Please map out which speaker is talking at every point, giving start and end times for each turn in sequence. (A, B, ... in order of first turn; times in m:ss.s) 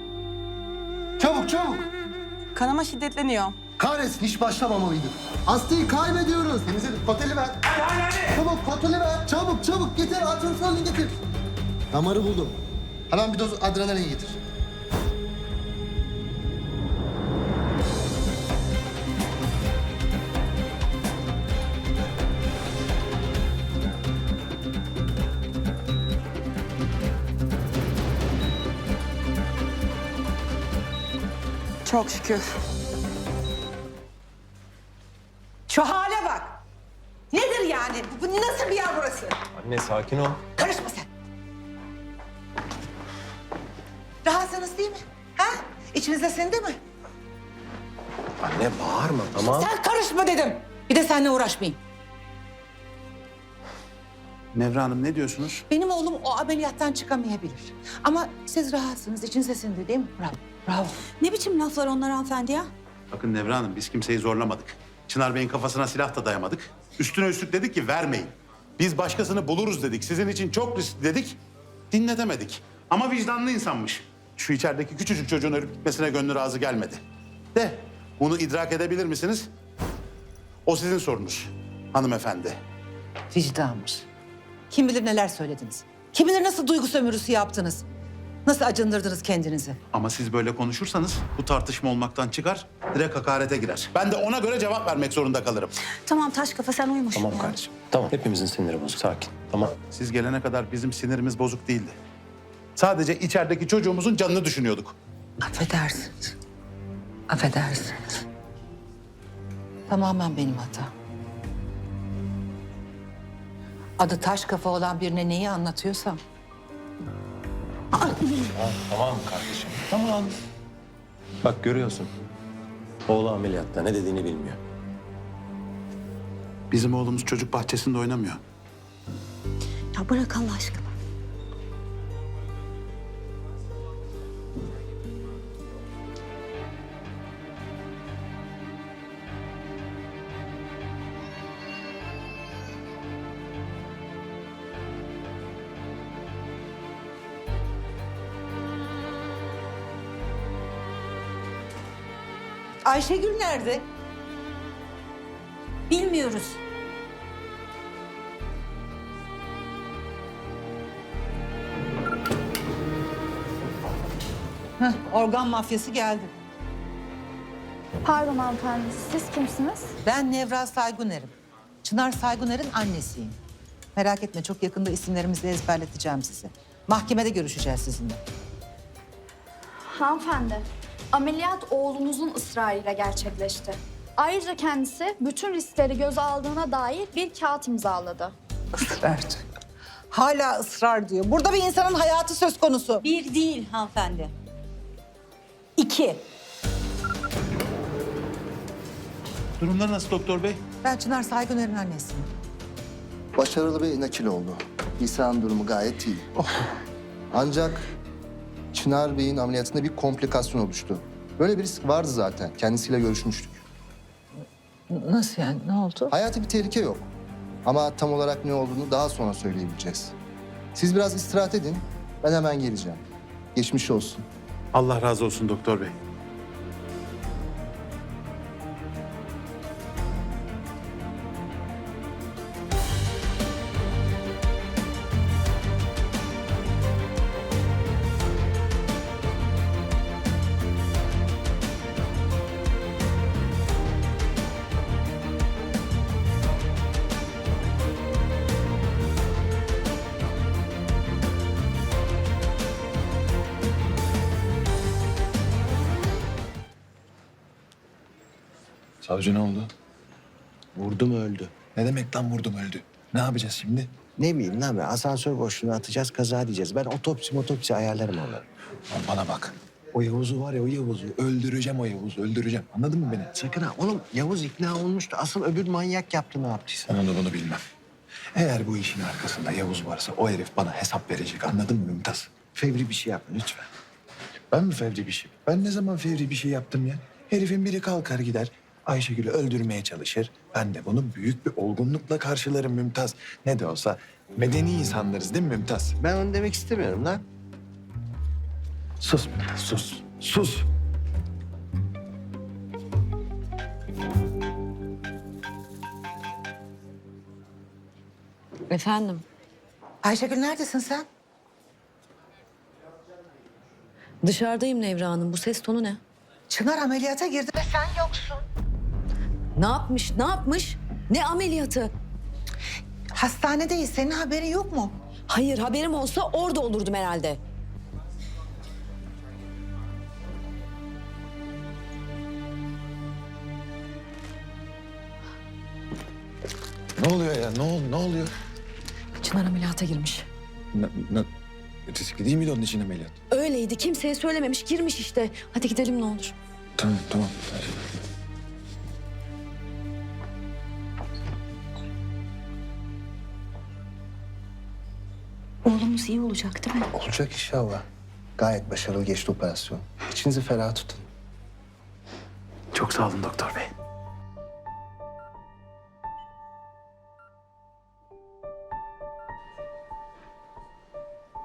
0:01.2-0:01.9 A
0:02.6-0:03.5 B
0:03.8-0:11.2 A
0:11.9-0:12.6 A
0:13.1-0:14.4 A
0:31.9-0:32.4 B
0:35.7-0:36.6 C
0:37.3-0:39.4 C
0:39.6-0:40.4 D
0:40.6-0:41.1 C
0:44.2-0:46.8 C
0:48.4-0:49.6 D
0:49.4-0:51.8 C
0:54.5-0:55.6 E
0:55.7-1:01.0 C
1:01.2-1:02.7 B
1:03.1-1:11.4 E
1:11.9-1:17.0 E
1:17.6-1:19.5 E
1:20.7-1:22.6 E
1:23.3-1:24.1 C
1:24.7-1:27.9 C
1:28.5-1:29.8 C
1:29.9-1:35.7 E
1:36.1-1:37.6 B
1:37.2-1:39.8 D
1:39.9-1:42.0 E
1:42.8-1:45.0 E
1:45.4-1:46.4 C
1:47.3-1:48.0 C
1:49.9-1:50.9 C
1:54.0-1:56.2 C
1:58.0-1:58.5 B
1:58.6-2:00.3 D
2:01.4-2:02.1 D
2:03.1-2:04.6 D
2:06.7-2:08.4 E
2:10.0-2:10.9 B
2:32.8-2:33.8 C
2:35.9-2:36.6 B
2:44.8-2:46.3 C
2:48.0-2:49.9 F
2:50.0-2:53.4 C
2:54.0-2:58.2 C
2:59.9-3:08.3 F
3:08.9-3:09.4 C
3:10.1-3:13.0 C
3:13.0-3:14.3 B
3:15.8-3:16.2 B
3:19.6-3:20.6 E
3:20.8-3:22.3 C
3:23.4-3:26.3 A
3:27.3-3:27.8 A
3:28.7-3:33.6 A
3:34.9-3:36.1 C
3:36.1-3:37.1 A
3:37.6-3:40.2 A
3:40.7-3:44.3 A
3:44.7-3:46.0 E
4:19.0-4:19.7 G
4:20.8-4:21.5 H
4:21.7-4:24.0 G
4:24.2-4:28.4 H
4:28.9-4:33.4 G
4:33.3-4:36.9 H
4:36.9-4:37.6 G
4:38.4-4:42.5 G
4:42.6-4:43.6 H
4:44.5-4:56.0 G
4:56.0-4:57.2 H
4:59.0-5:00.7 G
5:08.7-5:09.2 I
5:10.0-5:11.1 C
5:14.2-5:16.0 I
5:16.5-5:18.4 C
5:19.6-5:21.9 I
5:23.2-5:25.0 C
5:25.3-5:27.4 I
5:37.0-5:38.3 G
5:39.2-5:40.3 I
5:40.7-5:41.3 G
5:41.9-5:43.2 G
5:43.3-5:46.3 I
5:46.8-5:47.8 G
5:55.7-5:56.9 B
5:57.0-5:57.8 A
5:58.4-6:01.1 A
6:02.8-6:03.6 E